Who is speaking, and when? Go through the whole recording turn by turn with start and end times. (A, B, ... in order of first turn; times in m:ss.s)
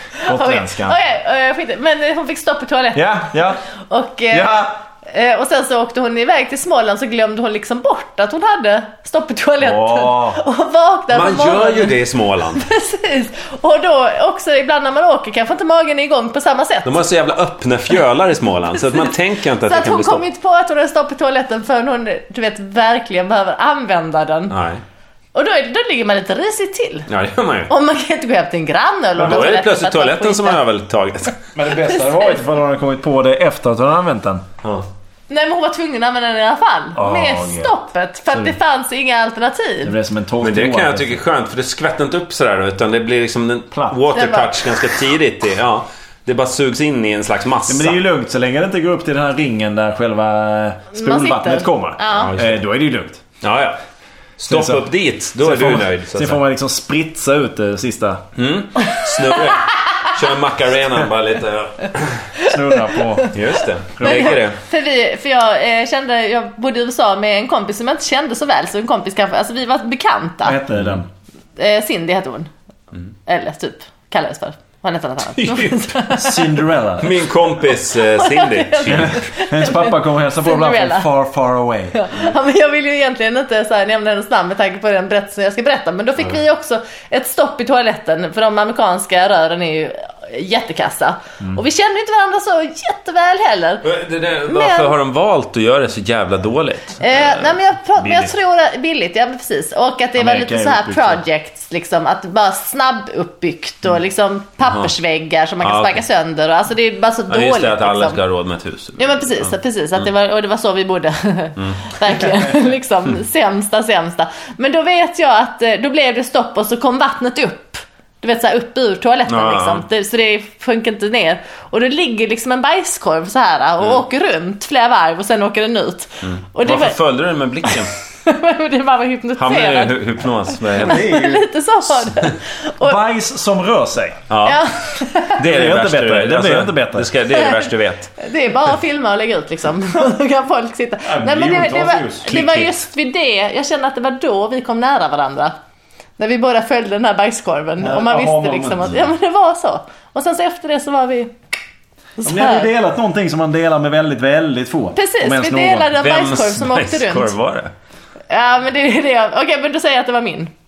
0:00.2-0:12.0 A
0:00.3-0:01.0 B
0:02.9-0:03.6 B
0:04.3-0:04.8 B
0:09.6-0:10.4 B
0:11.1-0:12.6 C
0:12.6-0:17.0 A
0:16.8-0:20.2 C
0:19.6-0:24.6 A
0:24.5-0:24.8 C
0:25.3-0:27.1 A
0:27.1-0:27.7 C
0:27.7-0:30.6 A
0:29.2-0:31.4 C
0:29.2-0:29.4 B
0:31.6-0:34.5 B
0:31.8-0:32.4 A
0:35.3-0:40.0 A
0:37.0-0:37.7 B
0:39.8-0:41.2 B
0:40.4-0:48.0 C
0:43.7-0:44.0 B
0:44.1-0:44.7 A
0:47.7-0:53.2 B
0:50.9-0:52.3 A
0:52.1-0:52.6 C
0:53.4-0:53.8 C
0:54.4-0:56.4 C
0:54.4-0:54.9 B
0:55.4-0:58.2 B
0:58.4-1:02.3 C
0:58.9-0:59.4 A
1:02.4-1:03.3 A
1:02.4-1:03.3 B
1:03.3-1:04.6 C
1:04.0-1:04.3 B
1:04.0-1:10.6 A
1:10.4-1:11.1 B
1:10.8-1:11.0 C
1:11.6-1:12.5 A
1:13.3-1:16.6 A
1:15.4-1:15.9 C
1:16.2-1:17.2 B
1:17.0-1:19.3 C
1:17.9-1:21.1 A
1:18.9-1:22.0 B
1:21.9-1:33.8 A
1:33.8-1:38.3 C
1:34.5-1:35.0 A
1:37.0-1:48.2 A
1:40.2-1:41.2 B
1:44.6-1:44.9 C
1:45.6-1:46.0 C
1:47.3-1:49.5 C
1:49.0-2:07.0 A
1:51.6-1:51.9 C
1:59.3-1:59.8 C
2:06.2-2:07.9 C
2:08.2-2:10.0 A
2:09.4-2:11.1 C
2:10.7-2:13.0 A
2:10.8-2:11.5 B
2:12.8-2:14.2 B
2:14.3-2:14.6 C
2:14.4-2:15.4 A
2:15.4-2:18.1 C
2:15.4-2:17.1 B
2:17.3-2:25.5 A
2:21.0-2:22.3 B
2:22.3-2:22.8 C
2:26.2-2:31.3 A
2:27.8-2:29.0 B
2:32.2-2:32.7 A
2:32.2-2:35.9 B
2:35.0-2:37.3 A
2:36.0-2:37.7 C
2:38.3-2:40.5 A